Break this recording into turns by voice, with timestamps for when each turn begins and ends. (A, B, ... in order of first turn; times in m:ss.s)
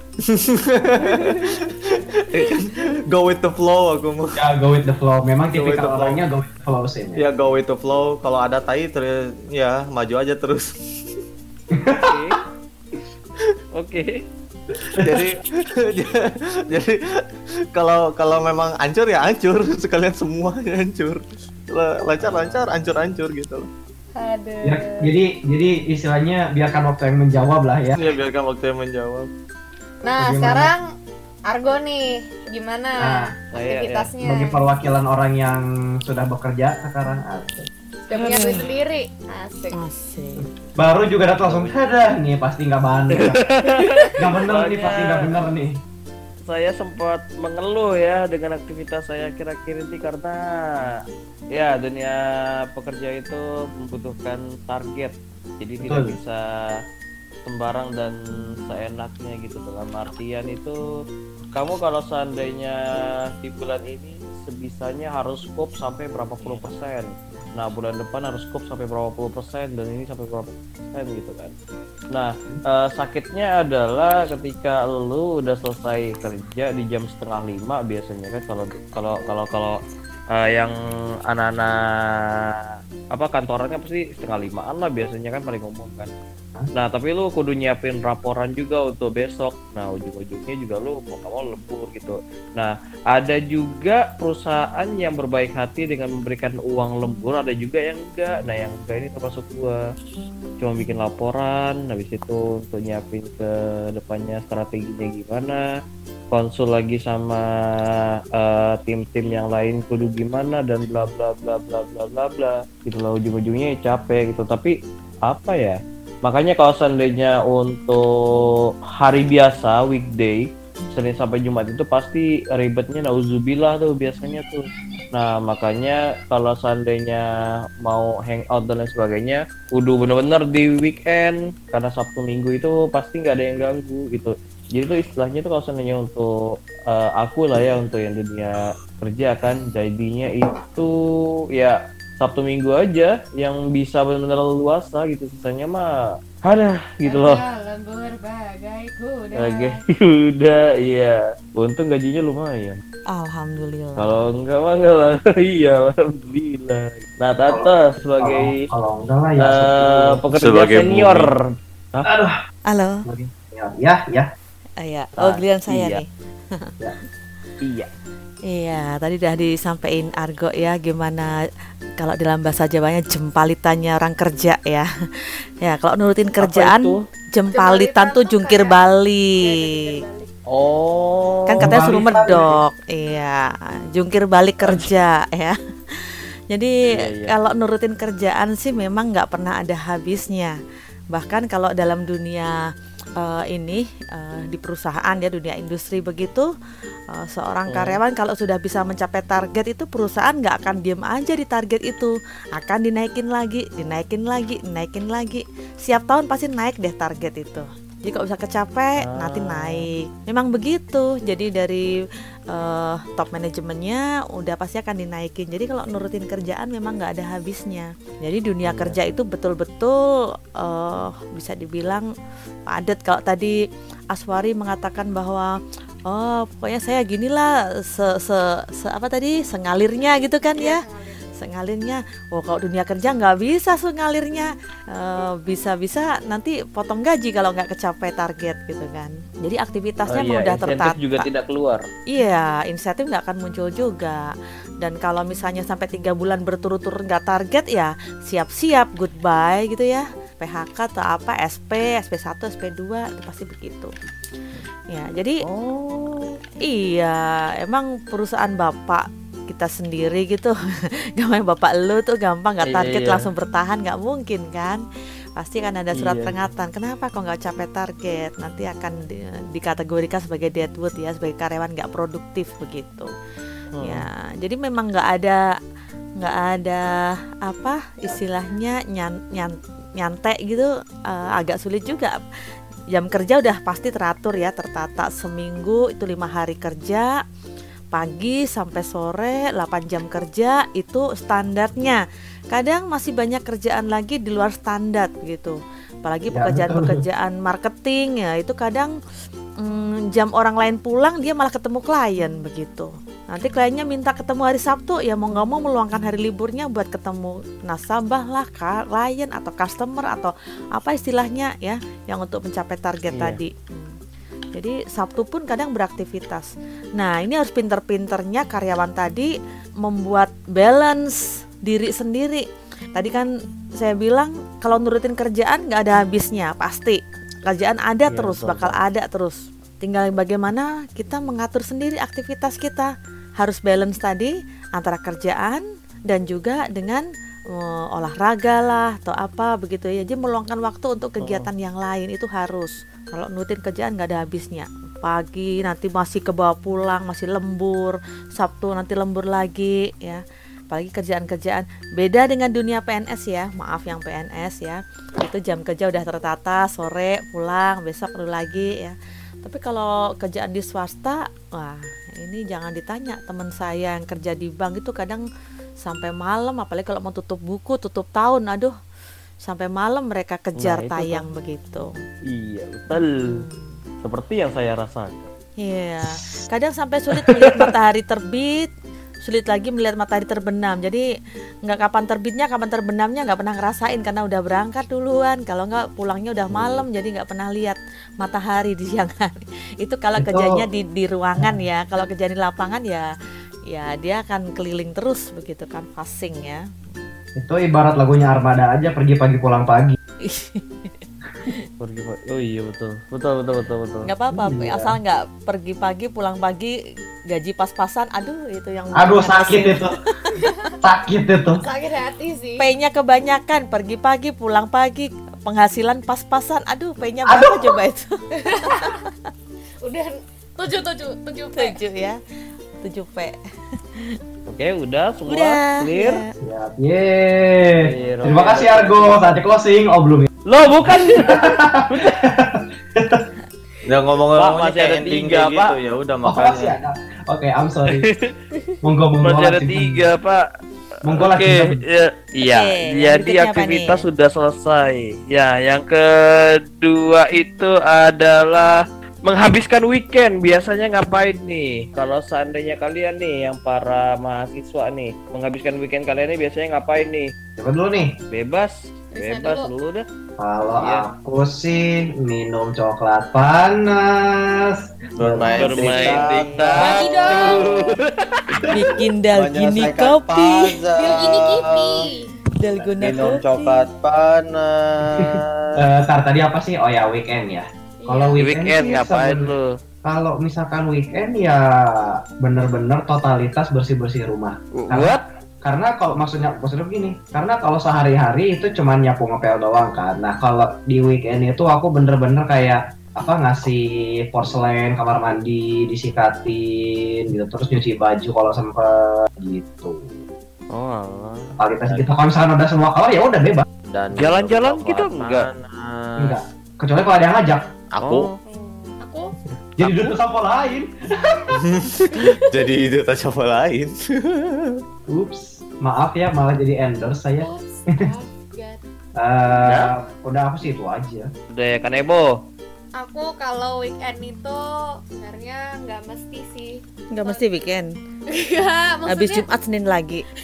0:00.3-0:04.4 A
0:01.0-0:01.5 B
0:04.4-0:07.2 C
0:05.5-0:06.2 A
0:07.2-0:11.2 A
0:11.7-0:12.2 C
0:12.0-0:12.4 D
0:13.8-0:14.2 D
0:14.8-0:17.2 A
0:14.9-0:15.3 C
0:17.7-0:23.7 A
0:22.2-0:23.0 D
0:24.2-0:25.1 B
0:24.6-0:28.1 C
0:28.0-0:29.3 A
0:30.0-0:30.8 B
0:30.2-0:30.7 C
0:31.5-0:34.7 B
0:33.0-0:33.3 C
0:33.5-0:34.1 D
0:34.2-0:37.7 C
0:38.1-0:39.8 B
0:38.1-0:38.6 E
0:39.7-0:40.5 E
0:40.8-0:43.4 C
0:41.4-0:41.8 D
0:43.1-0:45.3 D
0:43.8-0:44.3 B
0:44.2-0:45.8 C
0:46.5-0:51.0 D
0:51.5-0:52.2 D
0:52.7-0:56.4 D
0:55.8-0:56.1 C
0:57.4-1:00.8 D
1:01.5-1:02.8 D
1:03.4-1:11.5 D
1:06.4-1:06.7 C
1:12.1-1:19.8 D
1:20.3-1:20.7 D
1:21.3-1:21.8 D
1:23.1-1:26.1 D
1:26.7-1:39.8 D
1:40.6-1:45.6 D
1:46.3-2:07.2 D
2:07.8-2:20.9 D
2:21.5-2:25.9 D
2:26.4-2:27.4 D
2:27.0-2:29.8 B
2:29.4-2:32.8 D
2:33.1-2:34.1 E
2:34.0-2:38.6 D
2:37.5-2:40.2 C
2:39.4-2:41.4 D
2:40.3-2:41.3 A
2:42.0-2:42.3 C
2:42.7-2:43.0 E
2:43.0-2:44.3 C
2:44.8-2:46.7 E
2:45.2-2:46.0 D
2:47.6-2:47.9 D
2:48.5-2:51.3 E
2:52.0-3:00.0 E
2:56.4-2:57.0 D
2:57.5-3:00.3 B
3:00.5-3:02.6 D
3:01.5-3:10.6 E
3:01.6-3:02.5 C
3:06.9-3:07.3 D
3:11.1-3:16.5 E
3:17.1-3:42.1 E
3:17.7-3:18.0 D
3:29.0-3:29.9 D
3:38.6-3:39.0 D
3:42.7-3:43.6 E
3:44.1-3:50.8 E
3:50.4-3:51.4 B
3:51.4-4:01.3 E
4:00.1-4:01.9 D
4:02.1-4:13.9 E
4:14.9-4:15.4 E
4:15.4-4:16.4 D
4:16.6-4:20.6 E
4:21.2-4:24.8 E
4:22.6-4:23.3 D
4:25.4-4:33.1 E
4:25.9-4:26.3 D
4:33.7-4:34.0 D
4:33.8-4:35.5 E
4:36.2-4:42.2 E
4:42.9-4:47.2 E
4:47.9-4:59.0 E
4:56.3-4:57.0 C
4:59.6-5:14.0 E
5:13.1-5:13.4 D
5:14.5-6:05.2 E
5:28.1-5:28.8 D
5:41.2-5:41.5 D
6:05.8-6:08.7 E
6:09.4-6:11.9 E
6:10.6-6:11.2 D
6:12.3-6:13.4 D
6:12.9-6:13.8 E
6:14.0-6:15.3 D
6:15.6-6:18.7 E
6:17.3-6:17.6 D
6:19.2-6:21.1 E
6:21.6-6:33.1 E
6:26.5-6:26.8 D
6:30.2-6:30.6 C
6:33.7-6:37.1 E
6:37.4-6:40.0 C
6:40.2-6:41.6 E
6:41.8-6:44.1 D
6:44.0-6:46.8 E
6:44.3-6:45.0 C
6:47.3-6:50.6 E
6:49.0-6:49.9 C
6:50.8-6:51.6 C
6:51.6-6:52.6 B
6:52.6-6:59.3 E
6:57.2-6:57.8 C
6:58.4-6:59.0 B
6:59.8-7:01.8 B
7:01.6-7:02.2 E
7:02.8-7:03.4 E
7:03.9-7:04.2 E
7:04.5-7:06.2 D
7:05.3-7:06.3 E
7:06.4-7:10.3 C
7:07.8-7:09.2 D
7:10.4-7:12.1 D
7:10.8-7:13.2 C
7:13.8-7:16.8 A
7:14.4-7:15.7 D
7:16.2-7:18.0 C
7:17.9-7:18.3 D
7:18.8-7:20.0 C
7:19.2-7:20.4 D
7:21.0-7:21.8 C
7:21.1-7:37.3 D
7:22.4-7:24.0 E
7:37.6-7:38.1 C
7:38.3-7:40.0 D
7:39.1-7:39.7 B
7:40.4-7:46.4 C
7:40.8-7:41.1 D
7:45.2-7:47.0 A
7:45.5-7:48.7 D
7:45.5-7:47.5 E
7:46.7-7:47.7 B
7:48.7-7:50.8 E
7:49.3-7:52.1 A
7:51.0-7:52.3 B
7:52.6-7:53.8 E
7:52.8-7:55.8 A
7:55.2-7:59.5 C
7:58.0-7:58.4 B
7:58.4-7:59.8 D
8:00.0-8:20.1 C
8:04.7-8:05.2 D
8:20.7-8:21.5 D
8:21.6-8:23.6 C
8:23.9-8:26.4 A
8:24.2-8:25.5 D
8:26.2-8:27.6 C
8:27.9-8:28.3 A
8:28.0-8:28.4 D
8:28.4-8:29.3 B
8:29.8-8:31.6 C
8:31.5-8:34.8 A
8:35.1-8:37.5 C
8:37.4-8:38.8 B
8:39.2-8:41.3 C
8:39.6-8:39.9 D
8:41.5-8:42.3 D
8:43.0-8:47.4 B
8:47.1-8:47.9 E
8:48.3-8:49.4 B
8:49.0-8:50.3 E